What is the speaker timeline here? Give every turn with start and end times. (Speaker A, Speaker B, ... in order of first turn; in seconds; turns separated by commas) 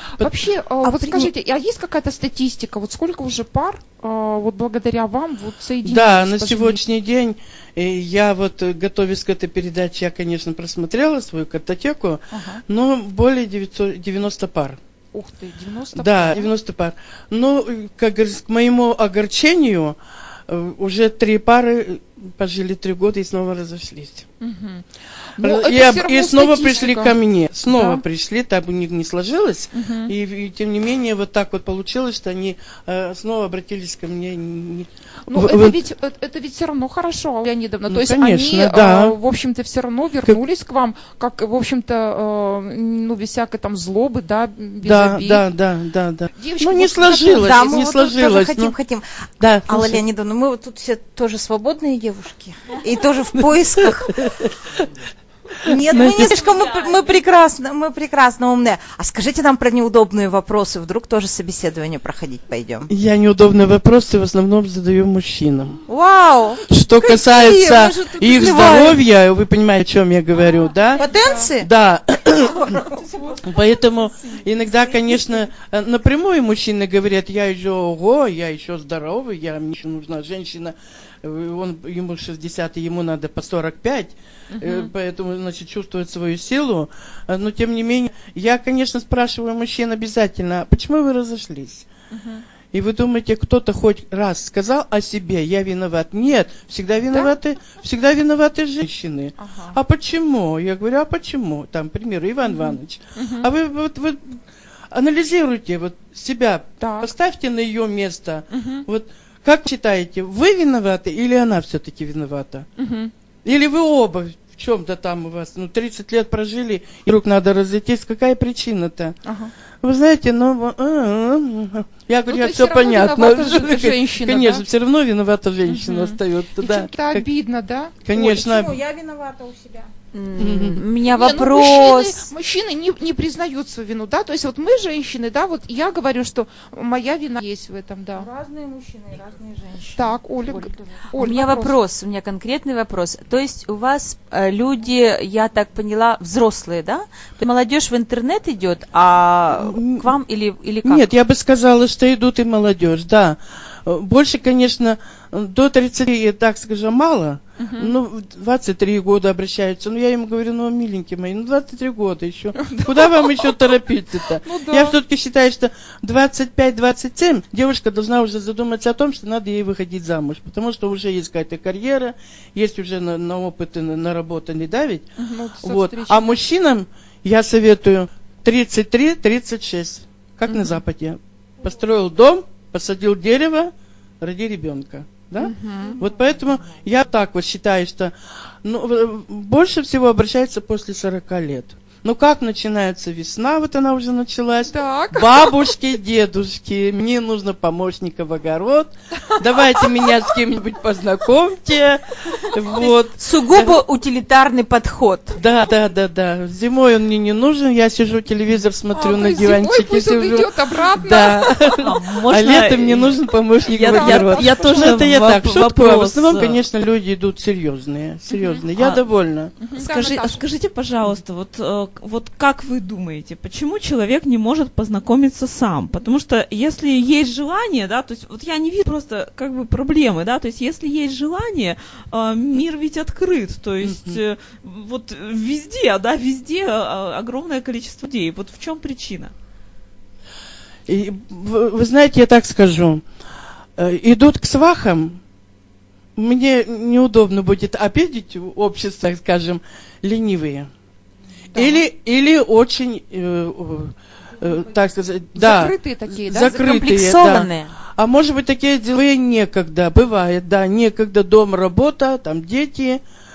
Speaker A: 0.2-6.8, Speaker B: 5.8-14.8, Speaker A: 12.3-12.6, Speaker A: 15.1-16.5, Speaker B: 16.0-20.0, Speaker B: 20.5-24.3, Speaker A: 24.4-24.9, Speaker A: 25.4-28.0, Speaker B: 25.4-35.8, Speaker A: 29.8-30.1, Speaker A: 35.3-45.5, Speaker B: 37.9-39.2, Speaker B: 44.8-48.8, Speaker A: 46.4-47.9, Speaker C: 47.3-49.1, Speaker B: 49.4-50.0, Speaker C: 49.6-54.3, Speaker C: 55.6-62.9, Speaker B: 55.9-56.3, Speaker B: 62.9-65.8, Speaker C: 65.9-69.0, Speaker B: 66.7-71.0, Speaker C: 71.0-71.7, Speaker A: 71.1-71.4, Speaker B: 71.6-72.6, Speaker B: 73.5-91.8, Speaker A: 92.1-92.4, Speaker B: 92.7-104.2, Speaker A: 99.4-99.8, Speaker A: 102.5-103.5, Speaker B: 104.9-112.7, Speaker A: 106.8-107.1, Speaker A: 108.5-108.8, Speaker A: 112.8-113.1, Speaker B: 113.5-119.2, Speaker A: 119.2-119.5, Speaker B: 119.8-127.3, Speaker A: 122.3-124.7, Speaker A: 125.7-128.1, Speaker B: 128.1-128.8, Speaker C: 128.2-129.9, Speaker D: 130.1-132.2, Speaker B: 130.4-130.8, Speaker A: 131.1-138.3, Speaker C: 138.2-139.9, Speaker A: 139.9-141.8, Speaker D: 141.2-151.1, Speaker B: 149.6-150.0, Speaker B: 150.8-175.1, Speaker A: 162.6-163.7, Speaker A: 164.4-165.0, Speaker A: 175.2-176.4, Speaker B: 175.6-188.1, Speaker A: 180.5-180.7, Speaker A: 185.4-186.0, Speaker B: 188.6-203.8, Speaker A: 194.7-195.6, Speaker D: 203.2-205.4, Speaker B: 205.4-219.5, Speaker A: 208.9-211.7, Speaker E: 211.8-213.2, Speaker E: 213.7-216.6, Speaker A: 213.9-215.0, Speaker E: 218.8-219.0, Speaker E: 219.6-239.3, Speaker A: 219.7-220.4, Speaker B: 233.8-234.2, Speaker B: 240.9-243.0, Speaker B: 243.8-245.2, Speaker B: 246.2-250.7, Speaker B: 251.5-263.0, Speaker A: 251.6-251.8, Speaker A: 255.4-256.6, Speaker D: 256.4-257.7